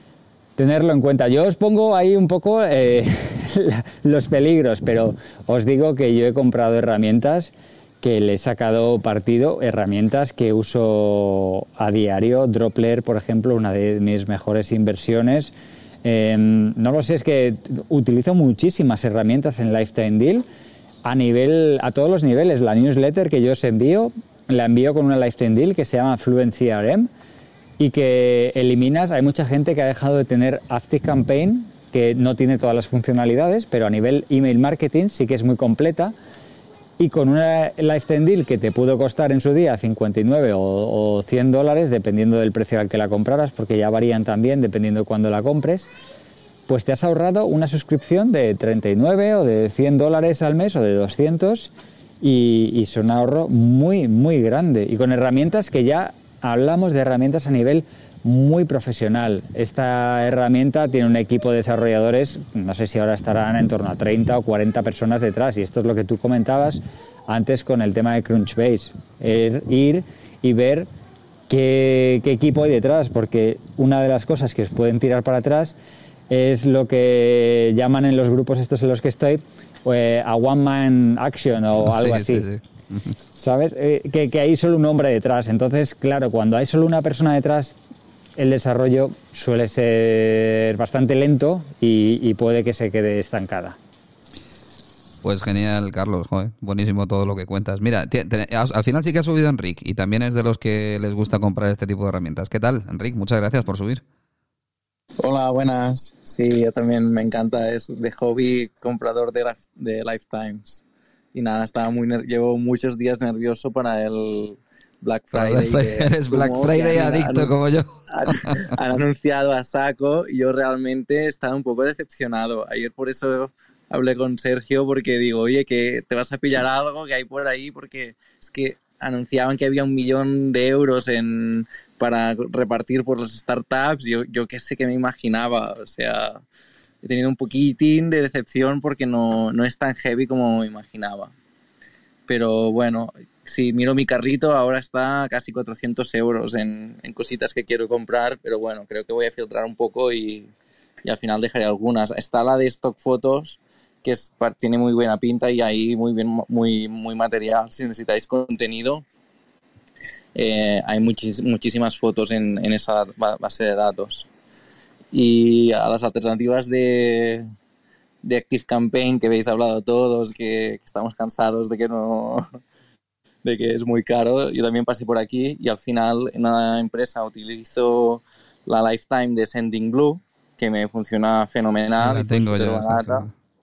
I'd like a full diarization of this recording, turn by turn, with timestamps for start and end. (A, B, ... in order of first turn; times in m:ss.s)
0:00.6-0:15.5 A
0:16.0-0:20.4 A
0:21.0-0:27.1 A
0:27.8-0:36.1 A
0:37.0-0:45.9 A
0:46.7-1:10.9 A
1:11.5-1:15.8 A
1:16.3-1:22.5 A
1:21.8-1:23.2 B
1:23.4-1:27.8 A
1:28.4-1:33.8 A
1:35.2-1:44.0 B
1:45.2-1:50.8 C
1:51.3-1:57.5 C
1:55.3-1:58.7 B
1:58.1-2:16.4 C
2:17.0-2:21.3 C
2:22.3-2:30.5 C
2:31.0-2:39.0 C
2:40.3-2:44.3 C
2:45.1-2:47.5 C
2:48.2-2:52.6 C
2:53.4-3:03.3 C
3:02.0-3:03.3 B